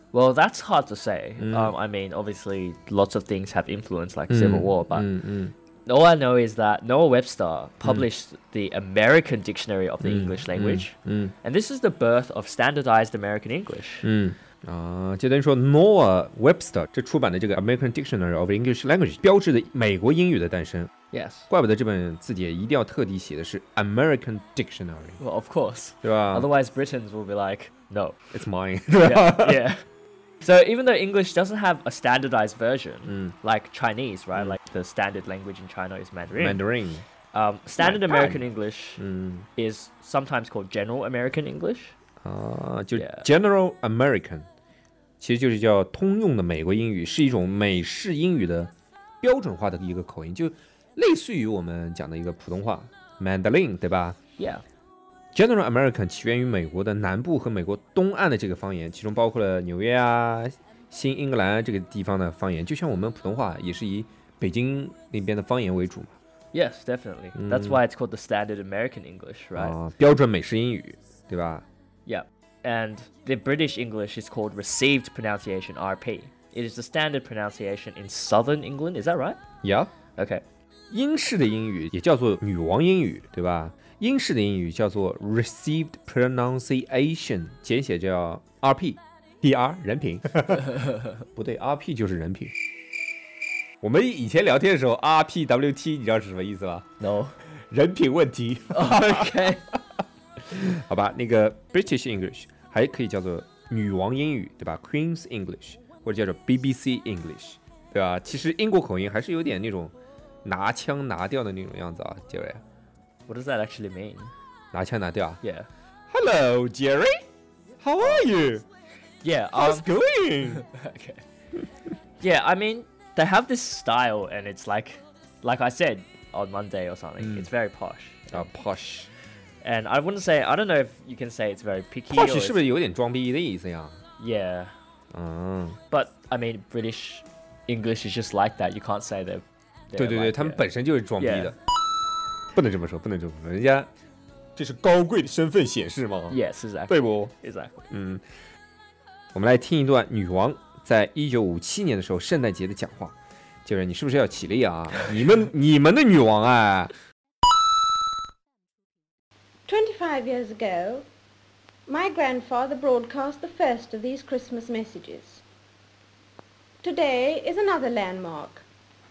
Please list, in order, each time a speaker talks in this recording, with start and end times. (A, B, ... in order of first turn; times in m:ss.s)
0:00.1-0:05.1 A
0:01.4-0:01.7 B
0:04.3-0:05.5 B
0:05.9-0:14.1 A
0:10.0-0:11.3 B
0:14.0-0:20.9 B
0:21.1-0:21.5 A
0:21.5-0:25.2 B
0:25.2-0:28.2 A
0:26.0-0:26.5 B
0:28.3-0:29.6 B
0:29.0-0:29.8 A
0:30.4-0:36.6 A
0:33.1-0:33.3 B
0:36.3-0:37.0 B
0:37.3-0:39.0 A
0:37.8-0:38.4 B
0:39.0-0:39.4 B
0:39.6-0:41.9 A
0:42.2-0:44.4 B
0:42.9-0:43.2 A
0:45.2-0:54.2 B
0:54.4-0:54.6 A
0:55.3-1:06.1 B
1:06.5-1:09.8 A
1:07.3-1:07.8 B
1:09.6-1:11.6 B
1:12.1-1:19.4 A
1:19.6-1:19.9 B
1:20.2-1:20.4 A
1:20.9-1:32.5 B
1:33.8-1:36.8 B
1:37.0-1:37.4 A
1:37.7-1:39.6 B
1:38.7-1:39.6 A
1:40.4-1:52.6 B
1:53.3-1:54.3 A
1:54.7-1:55.4 B
1:55.4-1:55.7 A
1:56.1-1:57.2 B
1:57.8-1:58.6 B
1:58.0-1:58.2 A
1:59.2-1:59.9 A
1:59.6-2:00.6 B
2:00.5-2:01.2 A
2:02.2-2:08.5 A
2:07.2-2:07.5 B
2:08.3-2:09.1 B
2:09.6-2:12.6 A
2:12.1-2:14.0 B
2:14.2-2:14.7 A
2:15.1-2:15.8 B
2:15.9-2:20.6 A
2:20.0-2:21.6 B
2:21.2-2:21.5 A
2:22.5-2:23.9 B
2:24.6-2:27.3 B
2:26.3-2:27.9 A
2:27.9-2:28.2 B
2:29.3-2:33.2 B
2:33.7-2:36.9 B
2:39.7-2:41.0 C
2:41.9-2:45.4 C
2:46.8-2:48.6 C